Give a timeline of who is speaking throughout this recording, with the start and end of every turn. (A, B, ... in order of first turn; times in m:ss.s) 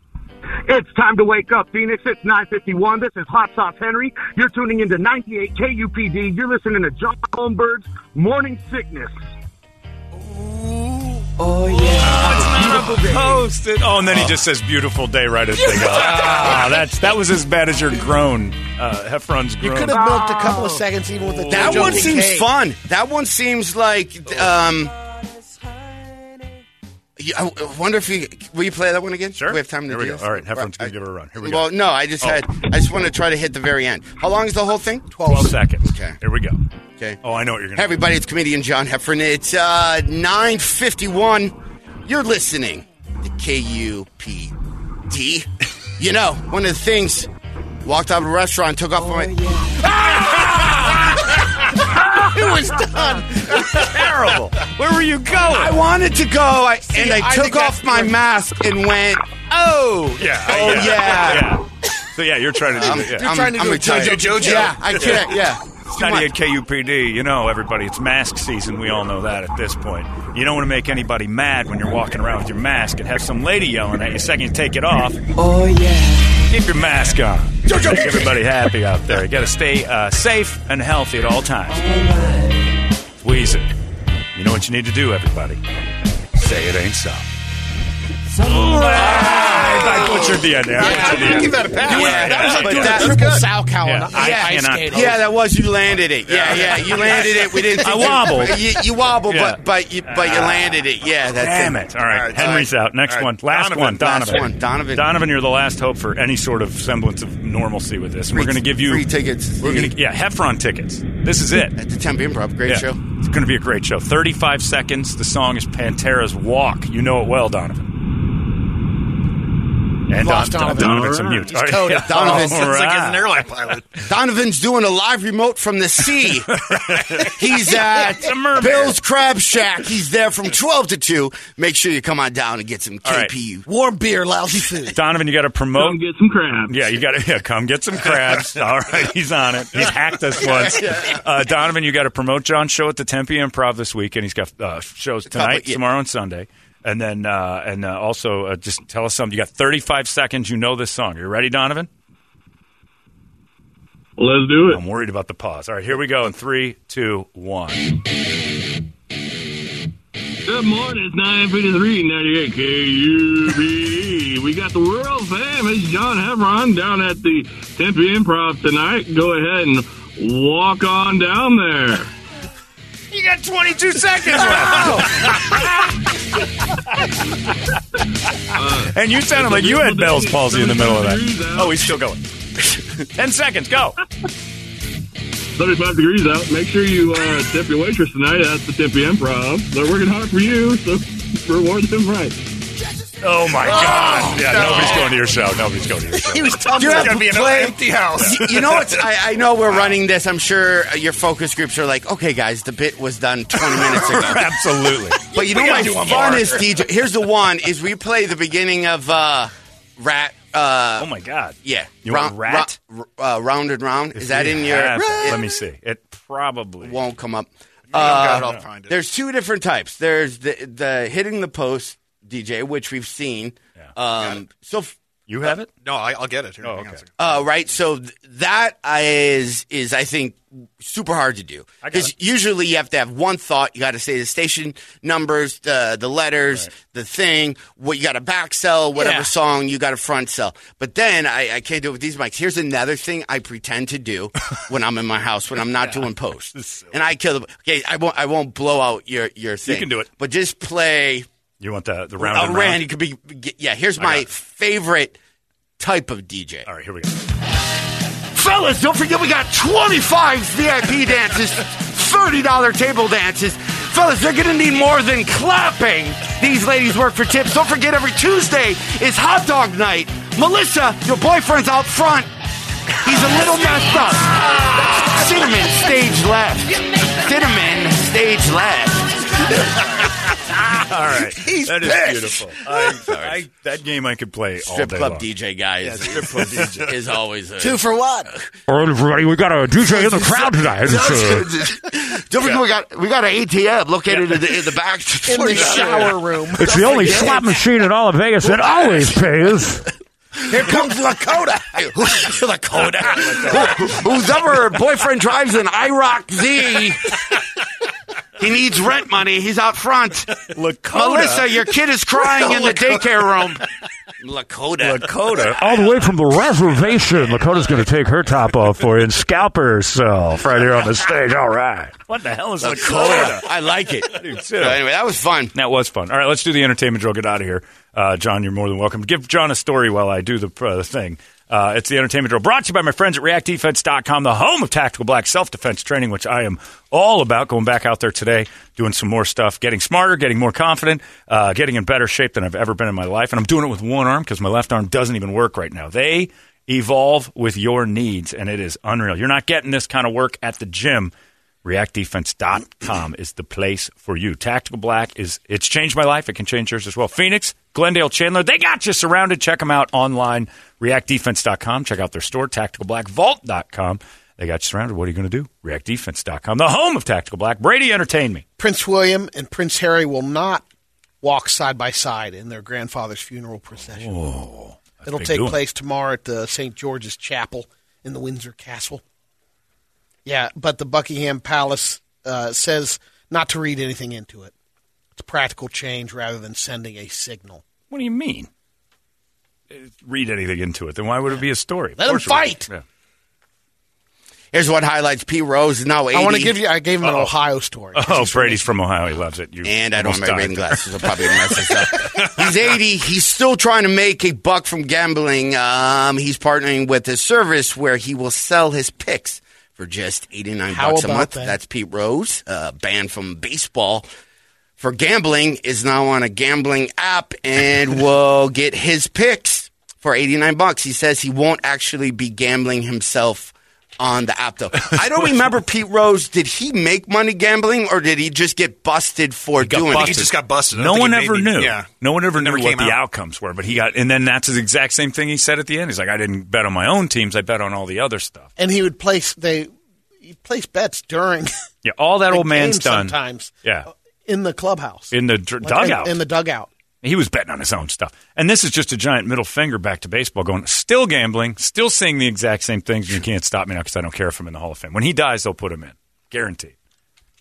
0:00.7-0:09.1 A
0:11.7-0:12.9 A
0:12.0-0:20.0 B
0:15.8-0:16.6 C
0:19.6-0:22.5 C
0:19.9-0:20.8 A
0:21.5-0:22.0 B
0:21.5-0:24.9 D
0:27.2-0:30.9 D
0:29.3-0:31.6 B
0:31.4-0:36.2 D
0:35.1-0:35.6 C
0:35.2-0:36.6 B
0:37.2-0:38.0 B
0:37.8-0:41.5 D
0:42.0-0:44.5 D
0:45.1-0:47.3 D
0:47.8-0:49.3 D
0:49.9-0:51.0 D
0:52.1-0:53.7 C
0:53.4-0:55.8 B
0:55.3-1:01.6 D
0:56.9-0:58.1 C
1:00.2-1:03.5 B
1:02.7-1:06.3 D
1:03.0-1:04.9 C
1:03.8-1:05.4 E
1:05.9-1:15.2 B
1:16.5-1:21.9 B
1:23.2-1:23.7 B
1:24.3-1:25.6 B
1:26.3-1:27.2 B
1:28.4-1:33.2 B
1:29.2-1:30.2 D
1:30.8-1:31.7 C
1:30.8-1:33.5 E
1:31.8-1:33.2 D
1:32.8-1:35.2 C
1:33.8-1:35.2 B
1:34.1-1:42.6 D
1:36.2-1:37.8 E
1:37.8-1:38.7 B
1:39.3-1:40.8 B
1:41.4-1:49.0 B
1:42.0-1:44.4 E
1:43.9-1:45.0 D
1:48.3-1:49.9 D
1:49.6-1:51.8 B
1:51.8-1:53.0 D
1:52.6-1:57.9 B
2:00.1-2:03.5 B
2:00.1-2:02.1 C
2:00.8-2:01.5 F
2:02.0-2:02.7 D
2:02.0-2:04.0 E
2:04.0-2:13.6 D
2:06.5-2:09.0 B
2:13.0-2:13.3 B
2:13.7-2:15.0 C
2:14.9-2:16.0 B
2:15.7-2:16.9 F
2:16.6-2:31.9 B
2:20.7-2:21.1 D
2:25.3-2:25.8 D
2:34.2-2:34.8 F
2:34.7-2:37.9 B
2:40.4-2:52.1 F
2:53.1-2:57.5 B
2:58.5-3:02.0 F
2:58.8-3:02.2 B
3:03.0-3:04.0 B
3:05.6-3:12.4 F
3:13.2-3:16.9 B
3:13.7-3:15.2 E
3:16.4-3:18.6 E
3:16.7-3:24.5 D
3:18.2-3:18.9 B
3:23.8-3:25.2 B
3:25.3-3:26.7 E
3:25.3-3:31.1 D
3:31.0-3:32.7 B
3:31.6-3:35.4 D
3:34.1-3:37.0 B
3:36.8-3:44.9 D
3:37.9-3:38.9 E
3:38.3-3:38.6 B
3:45.3-3:45.7 B
3:45.8-3:47.4 E
3:46.6-3:47.0 B
3:47.2-4:11.3 D
3:51.8-3:52.1 B
4:05.8-4:07.0 B
4:09.6-4:10.1 B
4:11.6-4:12.8 B
4:12.2-4:15.2 D
4:14.0-4:14.2 B
4:15.8-4:16.7 D
4:16.6-4:17.1 B
4:18.3-4:32.3 D
4:33.0-4:39.8 D
4:40.7-4:45.2 B
4:41.4-4:42.2 C
4:41.8-4:43.4 D
4:44.6-4:48.4 D
4:45.8-4:46.9 B
4:47.6-4:48.3 C
4:48.7-4:51.5 G
4:49.9-4:57.6 D
4:55.3-4:57.5 C
4:55.6-4:55.9 B
4:56.6-4:59.8 G
4:58.5-4:59.0 D
5:00.5-5:01.8 C
5:00.5-5:07.2 D
5:02.9-5:04.0 B
5:08.4-5:13.6 D
5:10.5-5:11.7 B
5:14.2-5:15.6 D
5:14.8-5:23.5 B
5:16.0-5:17.6 G
5:22.6-5:25.5 D
5:24.0-5:24.8 B
5:25.5-5:51.1 B
5:51.6-6:08.4 B
6:08.6-6:10.6 C
6:11.2-6:14.1 C
6:13.9-6:15.6 B
6:15.0-6:19.0 C
6:20.2-6:24.5 C
6:25.2-6:27.6 C
6:27.9-6:28.5 B
6:29.7-6:32.8 B
6:32.0-6:32.7 C
6:34.5-6:36.6 D
6:36.1-6:38.7 C
6:37.0-6:37.3 B
6:37.9-6:41.4 B
6:39.6-6:54.0 D
6:50.7-6:51.6 C
6:54.8-7:10.3 D
7:09.6-7:18.5 B
7:09.8-7:13.0 E
7:18.6-7:19.7 C
7:20.2-7:21.6 C
7:21.8-7:23.9 B
7:22.3-7:26.7 C
7:25.1-7:26.2 B
7:27.0-7:36.7 B